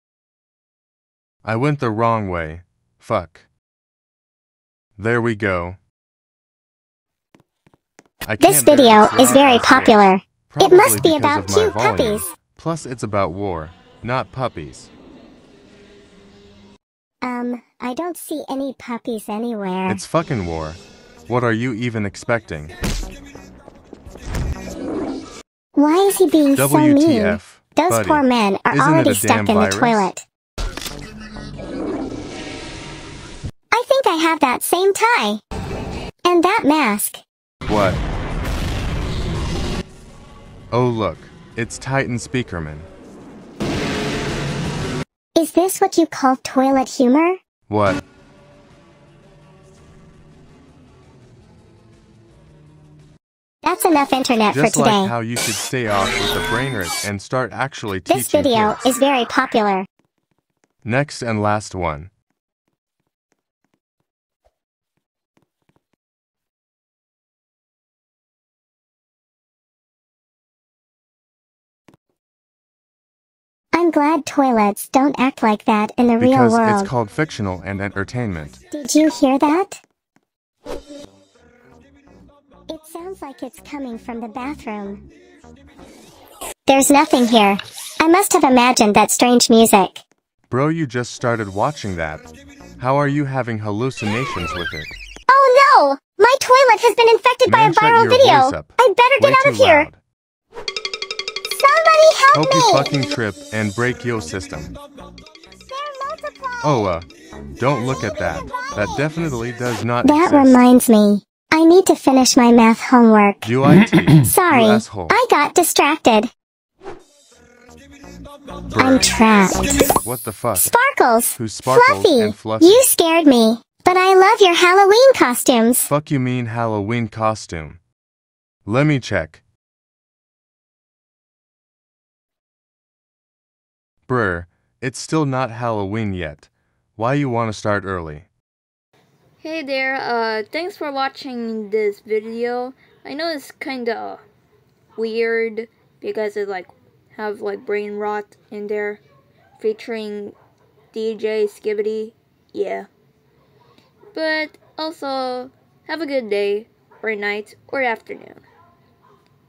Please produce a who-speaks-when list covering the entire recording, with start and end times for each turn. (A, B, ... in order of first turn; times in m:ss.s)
0:01.4-0:03.5 A
0:05.0-0:05.8 A
0:08.2-0:14.9 A
0:08.4-0:12.3 B
0:17.2-0:20.0 B
0:19.9-0:22.7 A
0:25.8-0:30.2 B
0:26.6-0:30.1 A
0:33.7-0:35.4 B
0:36.2-0:37.2 B
0:37.7-0:38.0 A
0:40.7-0:42.9 A
0:45.4-0:47.4 B
0:47.7-0:48.0 A
0:53.6-0:55.2 B
0:54.5-0:58.9 A
0:58.1-0:59.9 B
1:00.8-1:02.1 A
1:13.7-1:16.9 B
1:16.2-1:18.6 A
1:18.7-1:19.8 B
1:22.7-1:25.0 B
1:26.7-1:30.0 B
1:30.5-1:32.3 A
1:32.8-1:34.9 A
1:35.3-1:39.9 B
1:37.5-1:40.0 A
1:41.5-1:43.0 B
1:42.3-1:44.7 A
1:45.7-1:46.9 B
1:46.6-1:50.6 A
1:48.5-1:48.9 B
1:50.0-1:53.5 B
1:53.4-1:55.2 A
1:54.2-1:56.3 B
1:58.7-1:59.2 A
1:58.8-1:59.9 B
2:00.0-2:00.7 A
2:00.6-2:05.9 B
2:01.4-2:02.9 A
2:05.9-2:07.8 A
2:08.7-2:09.4 A
2:14.1-2:18.3 A
2:19.4-2:24.2 C
2:25.0-2:29.0 C
2:29.6-2:30.4 C
2:30.9-2:32.9 C
2:34.1-2:38.4 C